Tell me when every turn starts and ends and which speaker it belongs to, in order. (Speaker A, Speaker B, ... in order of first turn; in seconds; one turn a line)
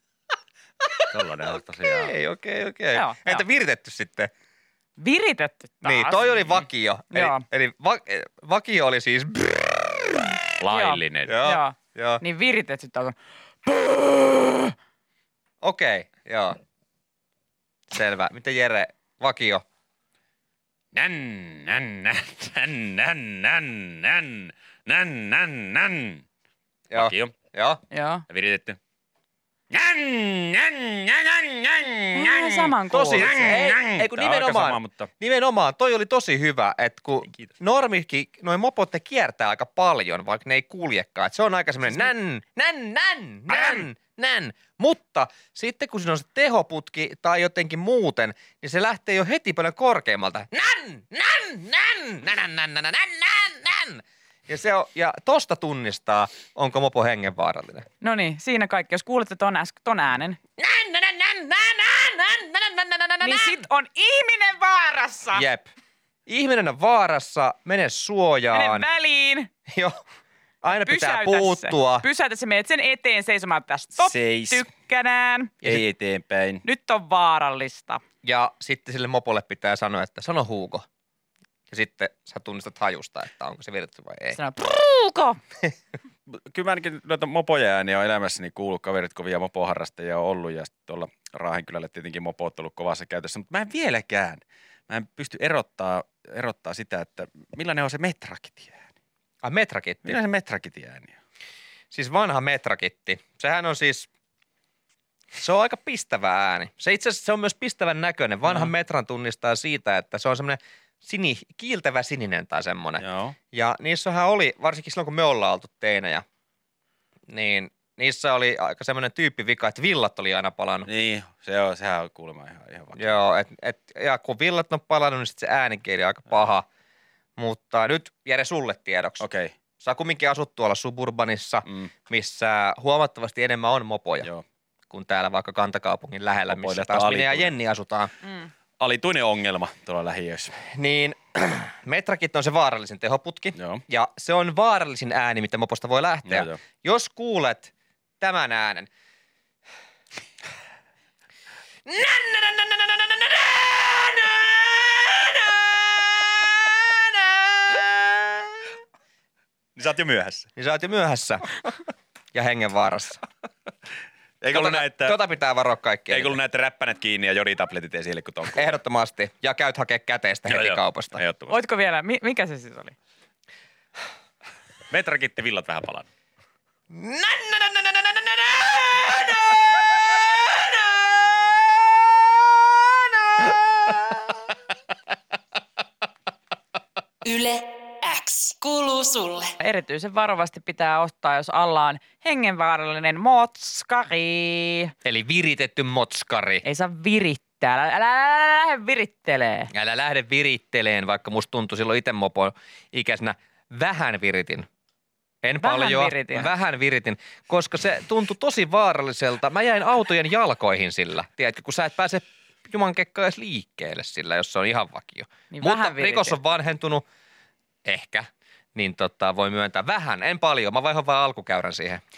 Speaker A: 1.1-2.1
Speaker B: 1.9-4.3
Speaker C: 2.9-3.4
Speaker C: 5.0-6.3
Speaker B: 5.8-10.3
Speaker C: 7.1-7.4
Speaker A: 10.6-11.3
Speaker C: 10.7-13.2
Speaker B: 11.3-12.2
Speaker C: 13.7-14.7
Speaker B: 15.6-16.6
Speaker B: 17.9-19.6
Speaker A: 20.9-26.2
Speaker B: 26.9-27.8
Speaker A: 26.9-27.3
Speaker C: 27.9-28.2
Speaker A: 28.3-28.8
Speaker A: 29.7-35.1
Speaker C: 32.1-33.3
Speaker B: 32.9-57.9
Speaker A: 43.5-43.8
Speaker C: 58.0-60.4
Speaker B: 60.6-63.6
Speaker C: 63.2-65.4
Speaker B: 65.3-65.7
Speaker B: 66.3-68.8
Speaker C: 68.5-69.5
Speaker B: 69.7-70.0
Speaker B: 70.6-72.0
Speaker C: 70.7-75.5
Speaker A: 74.0-74.7
Speaker A: 75.6-76.6
Speaker C: 76.6-78.0
Speaker B: 78.2-80.8
Speaker B: 81.7-84.4
Speaker C: 84.3-85.4
Speaker A: 86.3-98.9
Speaker B: 99.4-100.2
Speaker A: 100.0-101.2
Speaker B: 101.9-104.1
Speaker B: 105.3-116.2
Speaker A: 108.5-108.7
Speaker A: 113.0-113.3
Speaker B: 117.3-120.9
Speaker A: 120.9-123.2
Speaker B: 123.0-126.7
Speaker B: 127.4-129.2
Speaker A: 129.2-129.5
Speaker B: 129.8-134.3
Speaker B: 134.9-138.1
Speaker A: 136.5-137.5
Speaker C: 138.2-138.5
Speaker A: 138.8-140.5
Speaker B: 140.7-147.7
Speaker A: 143.6-143.8
Speaker A: 146.3-146.6
Speaker B: 148.2-148.9
Speaker B: 151.9-158.6
Speaker A: 159.8-160.5
Speaker B: 160.6-161.7
Speaker B: 162.3-163.2
Speaker A: 164.4-165.2
Speaker B: 164.5-166.4
Speaker A: 166.1-168.7
Speaker B: 168.6-171.2
Speaker A: 170.5-171.6
Speaker C: 171.5-172.9
Speaker A: 174.9-176.1
Speaker B: 176.9-181.7
Speaker B: 182.7-184.4
Speaker D: 187.2-189.5
Speaker C: 189.6-194.9
Speaker B: 195.1-196.6
Speaker C: 196.6-199.7
Speaker B: 199.7-204.7
Speaker B: 205.4-217.0
Speaker C: 205.6-206.5
Speaker C: 215.5-216.4
Speaker B: 217.8-222.0